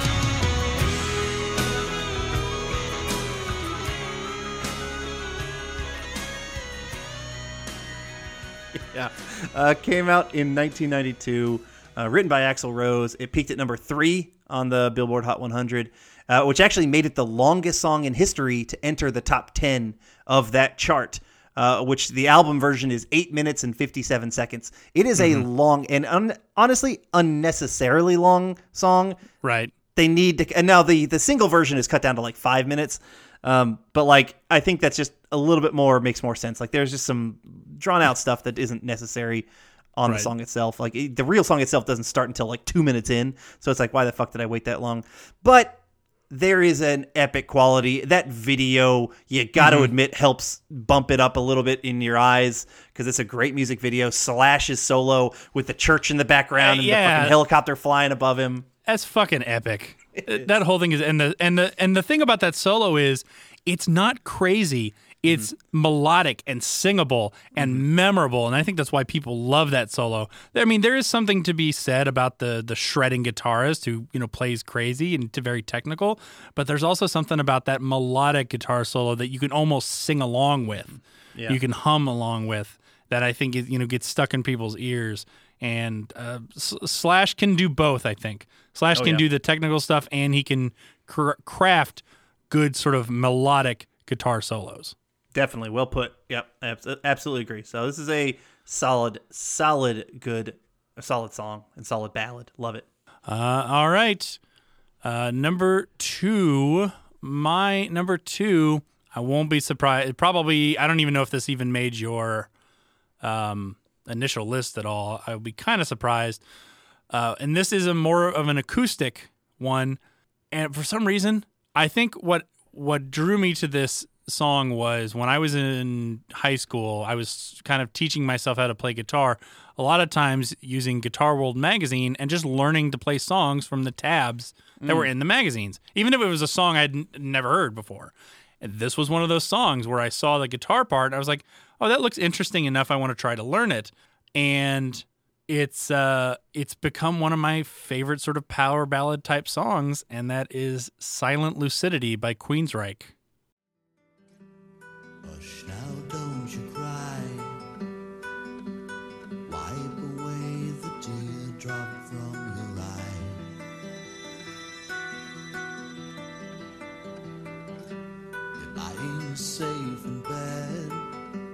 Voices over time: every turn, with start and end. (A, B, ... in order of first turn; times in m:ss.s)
0:08.7-0:29.2 A
0:25.2-0:25.4 B
0:29.4-0:29.7 B
0:30.0-0:58.7 A
0:49.6-0:49.9 B
0:56.6-0:57.4 B
0:58.8-1:34.9 B
1:00.2-1:00.5 A
1:07.5-1:07.8 A
1:20.9-1:21.6 A
1:28.9-1:29.2 A
1:35.3-1:42.8 A
1:43.2-1:44.4 B
1:45.0-1:52.5 B
1:53.2-1:56.4 B
1:57.1-2:00.0 B
2:00.5-2:33.1 B
2:14.8-2:15.1 A
2:35.2-2:37.5 C
2:39.5-2:43.4 C
2:48.6-2:51.0 C